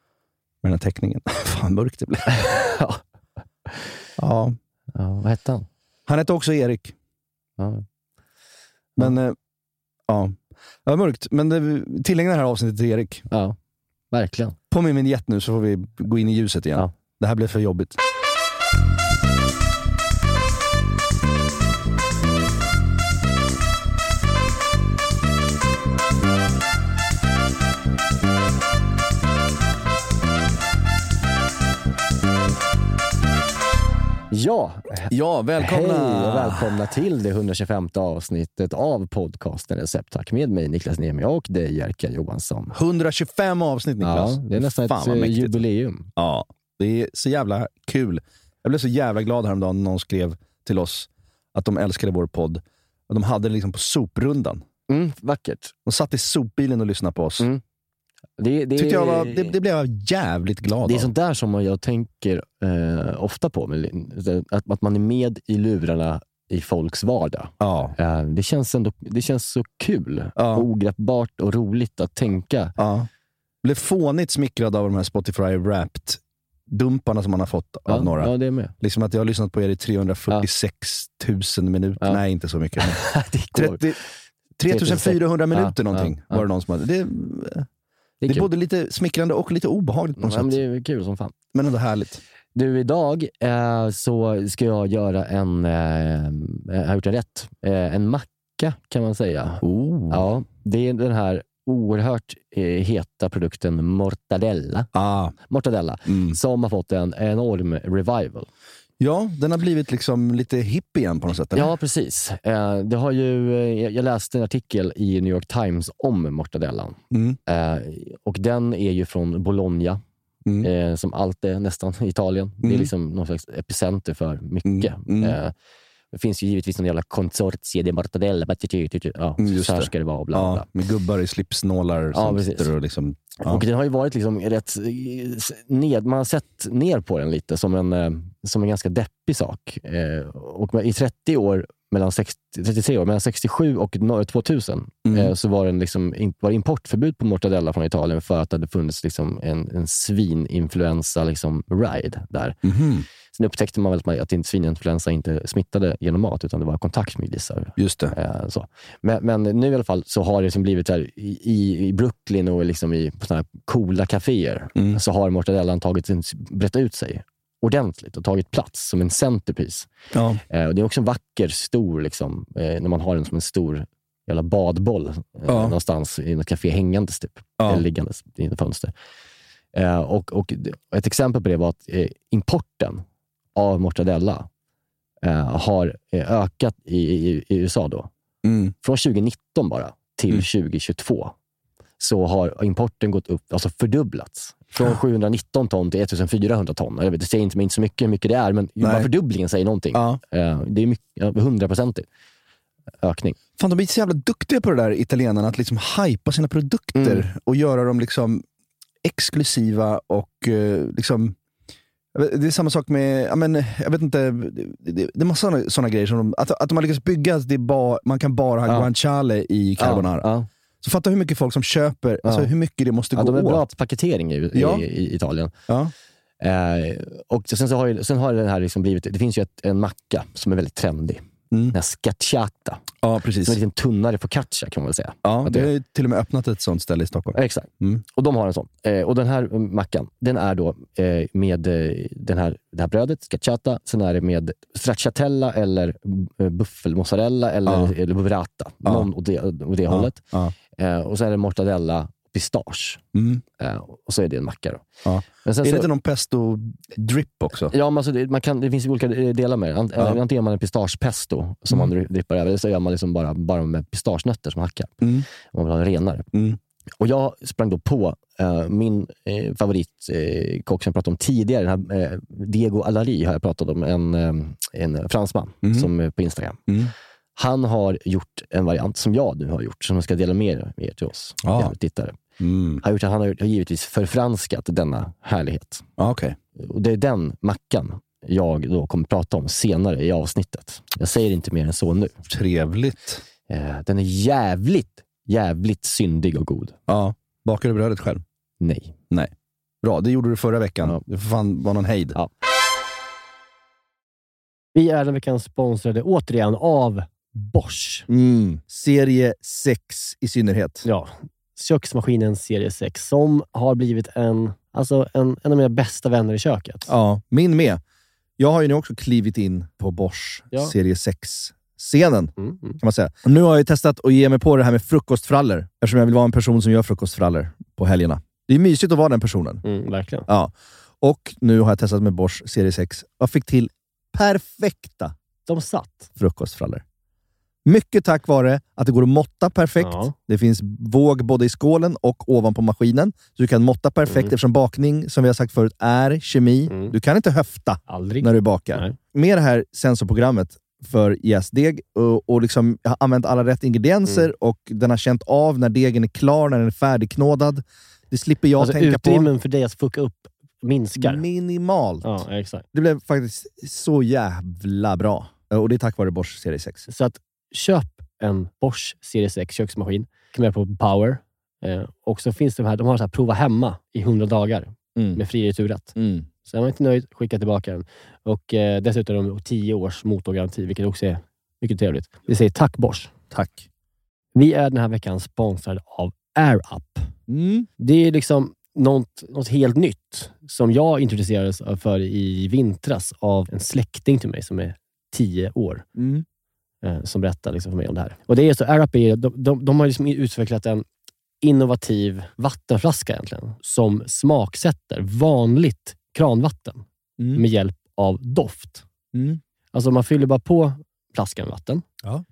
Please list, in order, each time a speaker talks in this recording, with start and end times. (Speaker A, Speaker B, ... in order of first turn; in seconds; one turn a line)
Speaker A: 0.6-2.3
Speaker B: 2.3-3.0
Speaker A: 4.2-4.6
Speaker B: 4.9-5.7
Speaker A: 6.1-6.9
Speaker B: 7.6-7.8
Speaker A: 9.0-9.3
Speaker A: 10.1-13.2
Speaker B: 13.3-13.6
Speaker B: 14.1-14.6
Speaker A: 14.7-18.0
Speaker B: 34.3-42.7
Speaker A: 35.1-36.7
Speaker A: 42.7-45.6
Speaker B: 44.0-46.1
Speaker A: 46.1-54.6
Speaker B: 54.9-55.7
Speaker A: 55.9-57.5
Speaker B: 58.4-59.5
Speaker A: 58.8-61.1
Speaker B: 60.8-72.8
Speaker A: 67.6-67.9
Speaker A: 70.3-70.6
Speaker A: 72.8-73.1
Speaker A: 73.6-84.0
Speaker B: 77.9-78.7
Speaker B: 82.8-83.8
Speaker A: 84.6-87.7
Speaker B: 84.7-86.5
Speaker B: 88.2-88.5
Speaker A: 88.3-90.6
Speaker B: 90.2-91.3
Speaker A: 91.5-92.2
Speaker B: 92.5-104.9
Speaker A: 99.6-100.2
Speaker A: 104.9-105.3
Speaker B: 105.5-108.5
Speaker A: 106.1-106.3
Speaker A: 109.0-111.7
Speaker B: 111.5-120.0
Speaker A: 117.1-117.4
Speaker B: 120.6-125.5
Speaker A: 122.6-122.9
Speaker A: 124.6-125.4
Speaker B: 126.1-130.6
Speaker A: 129.4-133.6
Speaker B: 132.1-132.7
Speaker B: 133.4-152.6
Speaker A: 145.1-145.3
Speaker A: 152.6-153.1
Speaker B: 153.3-169.9
Speaker A: 157.8-158.1
Speaker A: 164.7-165.0
Speaker A: 170.1-170.4
Speaker B: 170.5-178.9
Speaker A: 175.5-175.7
Speaker A: 177.6-177.8
Speaker B: 179.7-183.0
Speaker B: 183.5-184.5
Speaker B: 185.2-188.1
Speaker A: 188.4-188.7
Speaker B: 188.8-191.3
Speaker B: 192.0-202.1
Speaker A: 198.8-199.1
Speaker A: 199.9-200.2
Speaker B: 203.0-203.4
Speaker A: 203.6-208.4
Speaker B: 206.9-207.2
Speaker A: 209.0-211.3
Speaker A: 212.1-220.3
Speaker B: 219.8-220.5
Speaker A: 220.8-223.7
Speaker B: 222.2-222.5
Speaker B: 223.2-225.5
Speaker A: 224.5-224.8
Speaker B: 226.4-232.9
Speaker A: 233.0-233.6
Speaker B: 233.4-235.7
Speaker A: 235.2-238.0
Speaker B: 237.3-250.2
Speaker A: 247.7-247.9
Speaker A: 249.9-250.5
Speaker B: 250.7-253.0
Speaker A: 253.1-253.4
Speaker B: 253.6-254.8
Speaker A: 255.0-257.7
Speaker B: 255.4-255.9
Speaker B: 257.7-266.3
Speaker A: 265.0-265.3
Speaker A: 266.3-266.6
Speaker B: 267.0-276.6
Speaker A: 275.6-275.9
Speaker B: 277.4-282.2
Speaker A: 281.4-281.7
Speaker A: 282.4-282.8
Speaker B: 282.8-285.8
Speaker A: 286.0-286.4
Speaker B: 286.6-292.2
Speaker A: 292.3-293.2
Speaker B: 293.5-296.8
Speaker A: 296.9-298.2
Speaker B: 298.6-298.9
Speaker A: 299.1-302.1
Speaker C: 304.8-307.7
Speaker A: 308.1-310.9
Speaker C: 311.6-316.8
Speaker A: 316.9-317.8
Speaker A: 318.4-329.6
Speaker C: 322.4-322.7
Speaker C: 329.7-330.1
Speaker A: 330.3-335.1
Speaker B: 335.6-336.1
Speaker A: 336.2-336.8
Speaker A: 337.6-359.3
Speaker C: 358.6-361.2
Speaker B: 358.9-359.2
Speaker A: 360.9-362.2
Speaker C: 362.0-362.6
Speaker A: 362.7-366.8
Speaker C: 367.0-374.6
Speaker A: 374.9-375.2
Speaker B: 375.3-375.9
Speaker A: 375.9-376.3
Speaker C: 376.4-383.1
Speaker A: 383.3-383.6
Speaker C: 384.4-386.9
Speaker A: 387.3-387.7
Speaker C: 387.8-395.8
Speaker A: 396.0-396.2
Speaker C: 396.9-400.8
Speaker C: 401.4-406.8
Speaker C: 407.4-408.7
Speaker A: 409.1-409.4
Speaker C: 409.7-411.8